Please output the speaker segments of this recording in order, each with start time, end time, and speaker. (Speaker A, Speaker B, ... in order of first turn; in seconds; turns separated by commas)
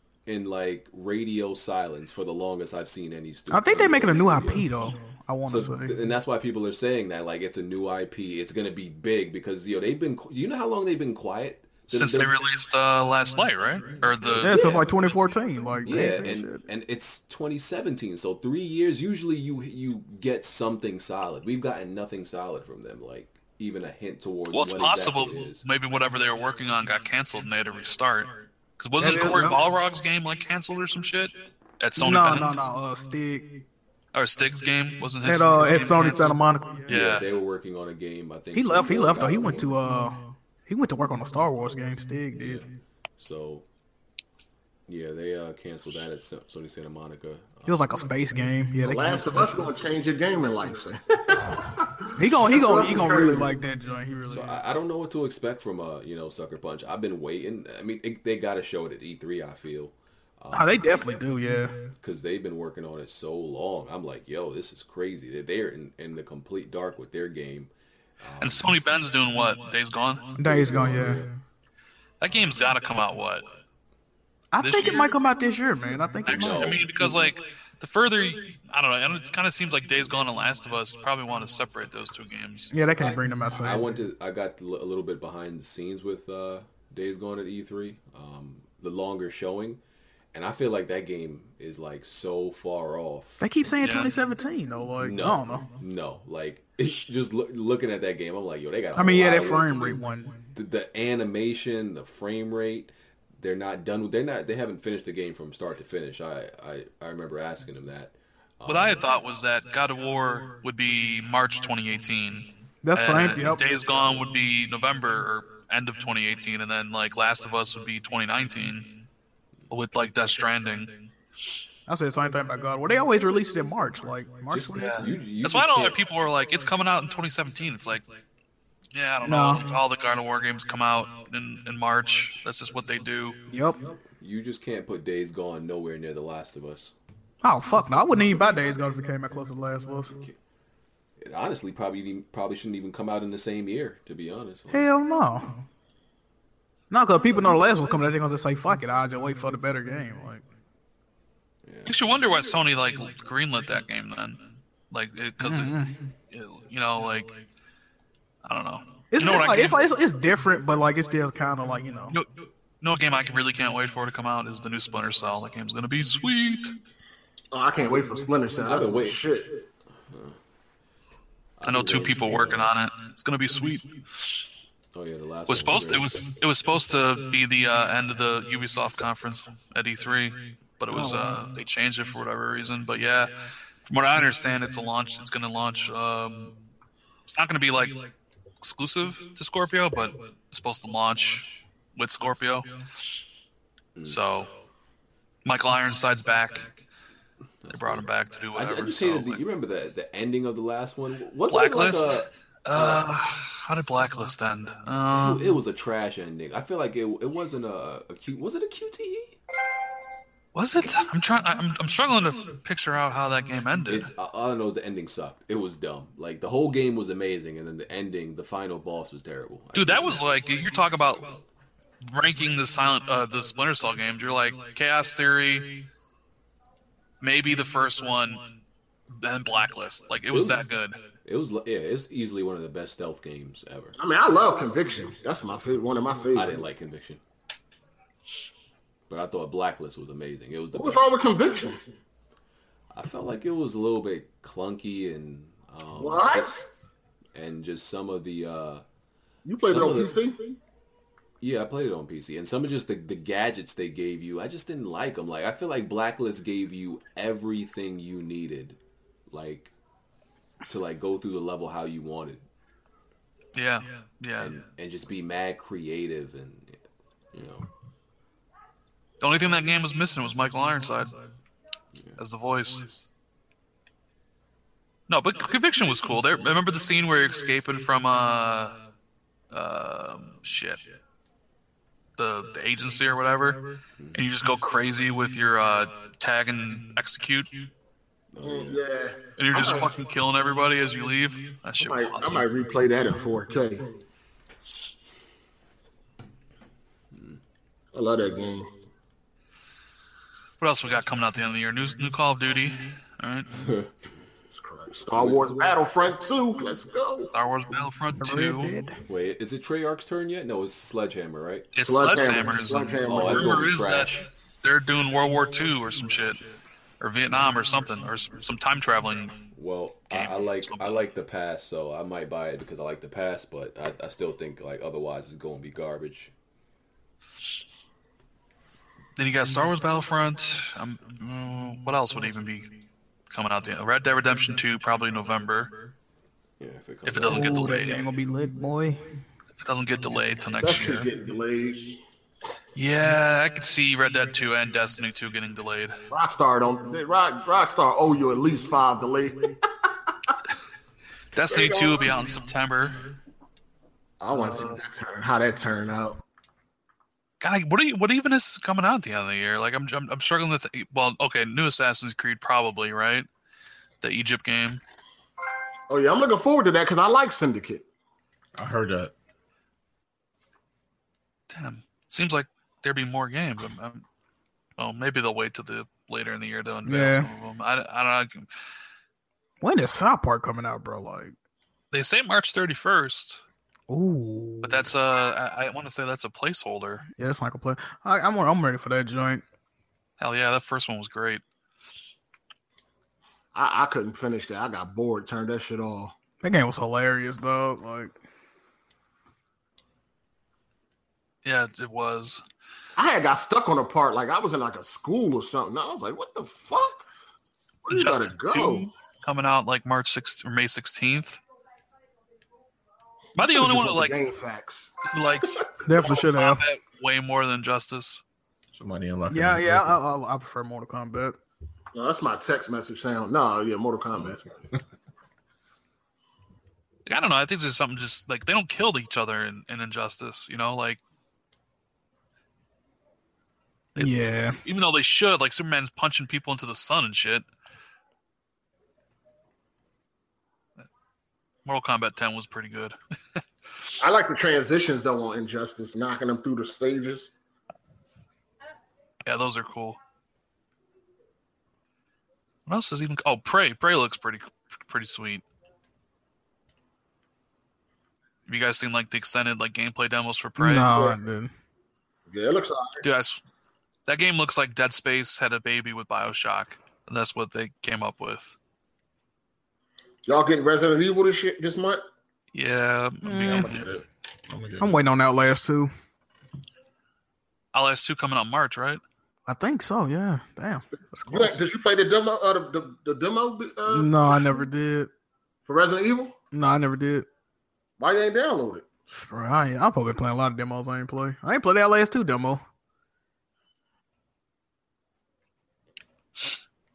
Speaker A: 0.2-4.8, Speaker B: 3.5-6.0, Speaker A: 5.5-12.4, Speaker C: 11.9-14.8, Speaker A: 14.2-14.9, Speaker B: 14.4-16.6, Speaker A: 15.8-25.6, Speaker C: 24.5-32.5, Speaker B: 29.0-29.6, Speaker B: 32.0-33.6, Speaker C: 34.1-37.2, Speaker B: 35.2-36.9, Speaker A: 36.9-39.7, Speaker B: 38.5-42.6, Speaker A: 42.4-42.6, Speaker A: 43.2-43.6, Speaker A: 44.9-47.8, Speaker B: 47.7-49.7, Speaker D: 48.8-53.5, Speaker B: 52.1-54.6, Speaker A: 54.3-60.9, Speaker B: 60.5-61.7, Speaker A: 62.0-68.8, Speaker C: 68.4-70.3, Speaker B: 70.4-71.2, Speaker A: 70.4-71.3, Speaker C: 72.2-73.5, Speaker B: 74.5-76.7, Speaker C: 74.6-75.0, Speaker C: 76.2-83.1, Speaker A: 76.3-77.3, Speaker B: 82.7-83.8, Speaker A: 83.5-89.8, Speaker A: 90.3-93.4, Speaker B: 93.4-95.7, Speaker C: 93.8-94.1, Speaker A: 95.0-100.0, Speaker B: 98.9-100.5, Speaker A: 100.5-109.0, Speaker C: 108.7-118.9, Speaker B: 112.8-113.6, Speaker C: 119.7-121.0, Speaker B: 121.9-125.1, Speaker A: 124.5-126.0, Speaker C: 124.8-128.1, Speaker C: 128.9-133.4, Speaker B: 129.2-129.6, Speaker B: 133.5-133.8, Speaker A: 134.2-136.9, Speaker B: 137.4-140.1, Speaker A: 141.2-144.9, Speaker B: 144.7-145.6, Speaker B: 146.9-150.4, Speaker A: 151.6-151.9, Speaker C: 151.8-155.7, Speaker B: 155.4-156.0, Speaker C: 156.3-157.3, Speaker C: 158.4-159.8, Speaker B: 159.1-162.2, Speaker C: 162.8-166.8, Speaker D: 167.5-169.6, Speaker A: 168.6-169.2, Speaker A: 170.1-170.4, Speaker A: 171.6-172.7, Speaker C: 171.6-174.4, Speaker A: 174.9-176.3, Speaker C: 175.5-183.3, Speaker B: 180.9-181.4, Speaker C: 183.8-186.5, Speaker C: 187.3-188.1, Speaker C: 188.6-192.7, Speaker A: 193.9-194.4, Speaker C: 194.1-194.5, Speaker C: 195.4-196.7, Speaker A: 197.6-203.0, Speaker C: 197.7-199.4, Speaker C: 201.5-205.5, Speaker A: 205.1-209.4, Speaker C: 210.5-214.1, Speaker A: 213.9-220.3, Speaker C: 219.7-221.4, Speaker C: 222.0-225.8, Speaker C: 227.2-228.4, Speaker C: 229.1-231.0, Speaker A: 230.3-230.6, Speaker A: 231.2-233.9, Speaker D: 234.0-236.6, Speaker A: 236.3-237.2, Speaker A: 239.1-241.1, Speaker D: 240.7-241.8, Speaker A: 242.9-246.6, Speaker D: 245.9-246.7, Speaker A: 247.3-248.8, Speaker D: 249.4-250.6, Speaker A: 249.6-250.2, Speaker A: 251.4-259.7, Speaker A: 260.6-262.4, Speaker C: 263.5-264.6, Speaker A: 264.4-266.8, Speaker A: 267.3-267.7, Speaker C: 269.2-271.1, Speaker C: 272.2-273.0, Speaker C: 275.1-278.7, Speaker C: 279.5-280.9, Speaker C: 282.2-287.6, Speaker A: 284.0-284.2, Speaker A: 288.3-288.8, Speaker D: 288.4-289.9, Speaker C: 289.4-292.5, Speaker D: 291.8-293.9, Speaker D: 297.9-298.7, Speaker C: 300.6-303.5, Speaker A: 303.5-303.9, Speaker D: 304.5-307.3, Speaker A: 305.1-305.4, Speaker C: 307.3-308.7, Speaker B: 308.2-309.0, Speaker A: 309.1-311.7, Speaker C: 311.7-316.4, Speaker D: 311.8-313.6, Speaker A: 313.0-314.2, Speaker C: 317.0-319.4, Speaker A: 319.5-326.3, Speaker C: 320.1-320.9, Speaker C: 329.1-332.7, Speaker C: 333.3-335.7, Speaker A: 336.6-337.8, Speaker C: 337.0-338.0, Speaker B: 337.2-339.1, Speaker C: 339.6-341.1, Speaker D: 340.6-342.0, Speaker C: 342.7-346.0, Speaker D: 346.1-349.6, Speaker C: 351.3-353.1, Speaker D: 351.5-352.2, Speaker D: 354.2-356.2, Speaker C: 354.3-354.8, Speaker C: 357.4-363.3, Speaker C: 364.0-364.8, Speaker D: 365.9-367.9, Speaker E: 368.6-369.1, Speaker C: 371.5-374.0, Speaker C: 374.8-378.5, Speaker B: 376.8-377.3, Speaker B: 379.6-381.3, Speaker C: 381.9-383.4, Speaker B: 383.9-384.9, Speaker C: 384.6-387.0, Speaker B: 387.1-389.4, Speaker C: 390.2-391.4, Speaker D: 393.5-396.1, Speaker B: 396.4-398.1, Speaker C: 401.4-402.4, Speaker D: 403.0-407.0, Speaker D: 407.8-408.9, Speaker C: 407.9-411.4, Speaker C: 413.4-414.2, Speaker D: 413.4-414.9, Speaker C: 415.1-418.2, Speaker B: 415.8-416.6, Speaker E: 418.7-420.0, Speaker B: 419.3-421.4, Speaker D: 421.9-424.6, Speaker E: 424.2-424.8, Speaker C: 427.1-431.0, Speaker C: 433.9-437.4, Speaker B: 434.0-434.6, Speaker C: 441.6-443.4, Speaker D: 444.0-447.3, Speaker C: 449.2-450.0, Speaker C: 452.6-455.4, Speaker C: 458.5-460.9, Speaker B: 460.6-461.5, Speaker D: 462.3-463.0, Speaker C: 463.0-463.4, Speaker C: 464.1-468.6, Speaker D: 470.2-472.0, Speaker C: 472.5-473.8, Speaker B: 473.2-473.7, Speaker E: 473.3-475.0, Speaker B: 474.8-475.9, Speaker C: 477.7-479.0, Speaker B: 479.5-481.5, Speaker D: 481.2-484.6, Speaker B: 483.9-485.1, Speaker D: 485.6-486.3, Speaker B: 486.5-487.2, Speaker D: 488.0-488.8, Speaker B: 489.1-492.6